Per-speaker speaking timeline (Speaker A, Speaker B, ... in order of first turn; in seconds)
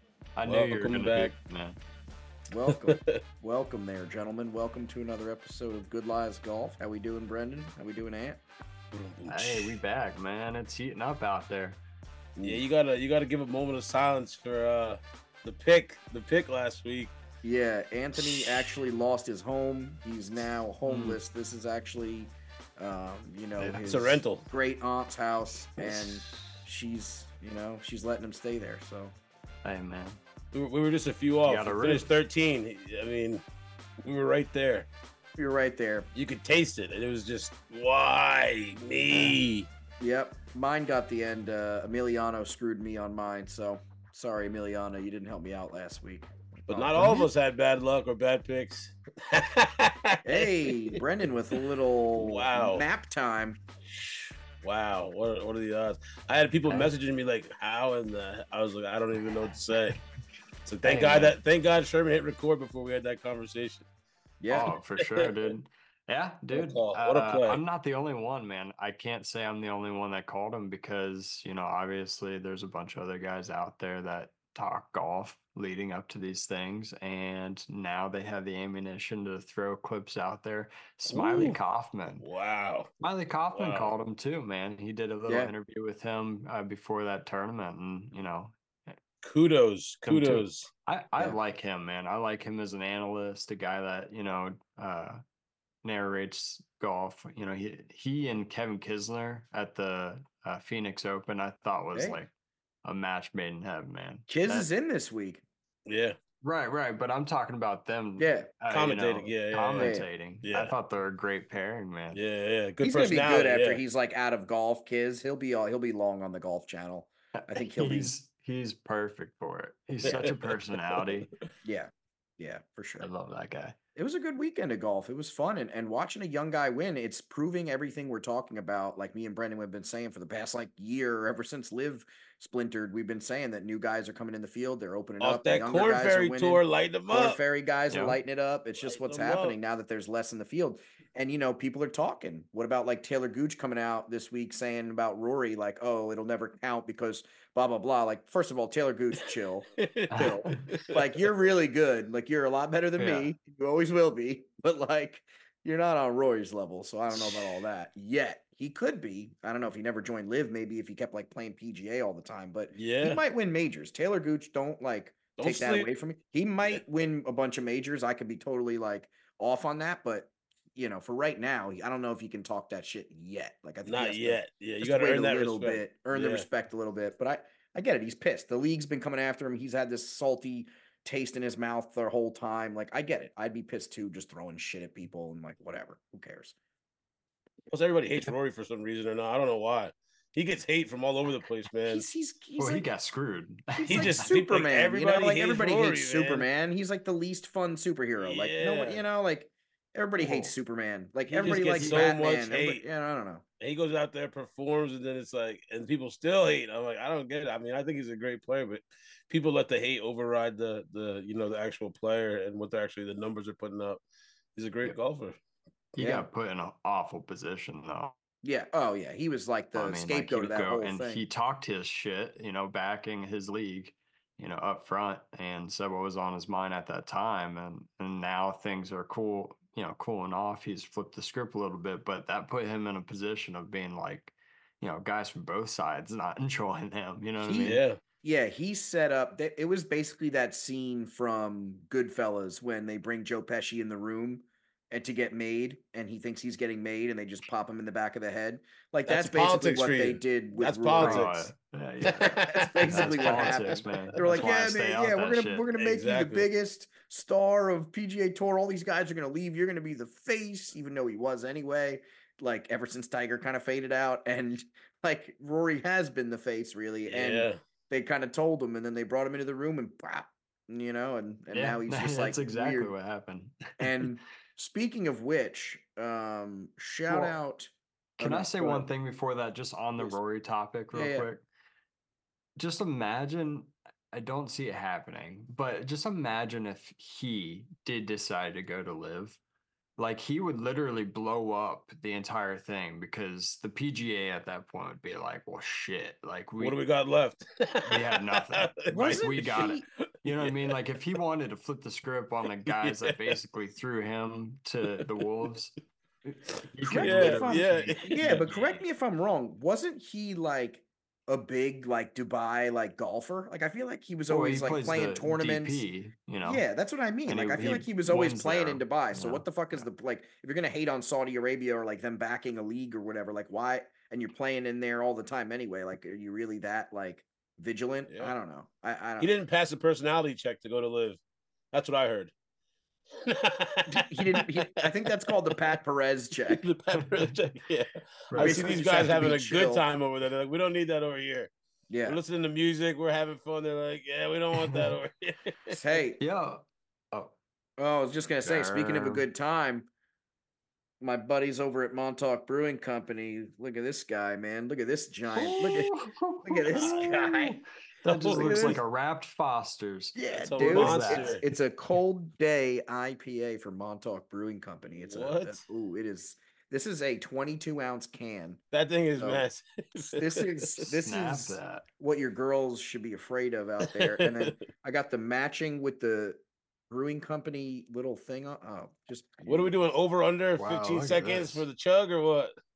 Speaker A: 0.4-1.8, 9.3-11.8, 20.8-21.2, 23.6-23.9, 29.6-30.2, 31.4-32.1, 39.1-39.4, 47.0-47.3, 60.8-61.4, 64.5-82.2, 83.0-89.0, 90.1-95.2, 95.8-102.3, 102.8-104.7, 106.4-112.2, 117.4-121.3, 123.0-123.8, 137.9-138.2, 150.1-150.7, 153.0-153.3, 192.6-194.3, 201.6-202.1, 216.0-218.1, 219.8-237.8, 251.0-255.7, 271.5-274.1, 277.1-277.4, 278.2-281.4, 282.6-289.4, 290.0-296.8, 297.9-308.5, 314.3-316.6, 317.3-319.8, 338.3-339.3, 344.6-344.9, 346.2-347.3, 348.4-349.3, 355.3-361.5, 370.9-371.9, 380.6-381.7
Speaker B: 0.5-1.3, 2.7-3.2, 8.9-9.8, 12.4-17.1, 23.8-24.5, 30.5-33.5, 34.0-34.9, 36.2-39.7, 46.7-51.0, 52.2-52.9, 53.9-60.0, 60.7-63.9, 65.0-65.3, 66.5-67.6, 81.1-81.6, 82.2-82.9, 83.5-83.9, 89.2-90.7, 105.9-106.2, 108.7-110.8, 112.1-113.8, 120.0-121.1, 135.2-137.4, 138.8-139.6, 149.2-151.3, 162.8-163.2, 165.4-165.9, 173.8-176.5, 187.7-192.1, 193.8-196.5, 198.2-199.1, 200.2-200.5, 201.3-202.8, 203.6-214.0, 214.6-215.4, 237.6-238.0, 249.1-251.5, 252.1-254.0, 255.8-256.5, 267.1-267.6, 296.6-299.8, 300.4-300.8, 302.7-303.4, 307.0-308.8, 328.1-328.3, 329.2-331.2, 331.7-332.3, 333.2-335.8, 336.5-341.5, 342.1-345.8, 356.8-357.0, 358.1-358.8, 360.3-361.4, 364.9-365.6, 368.7-370.8, 373.8-374.6, 379.5-382.5
Speaker C: 2.5-8.4, 12.4-12.6, 17.4-29.1, 35.4-36.1, 40.0-47.3, 50.2-53.6, 64.4-64.7, 104.3-105.4, 108.2-108.5, 109.8-110.1, 112.8-118.1, 121.6-123.1, 124.0-186.6, 191.9-192.9, 193.8-203.4, 216.0-216.3, 218.4-221.2, 237.4-251.3, 252.2-272.9, 273.8-278.9, 280.9-281.3, 298.9-299.8, 306.8-315.8, 316.4-329.3, 333.9-336.7, 338.4-339.8, 341.9-342.2, 345.7-346.2, 347.8-349.9, 351.0-355.9, 356.4-357.6, 358.2-358.8, 360.1-368.6, 369.2-369.5, 370.1-379.7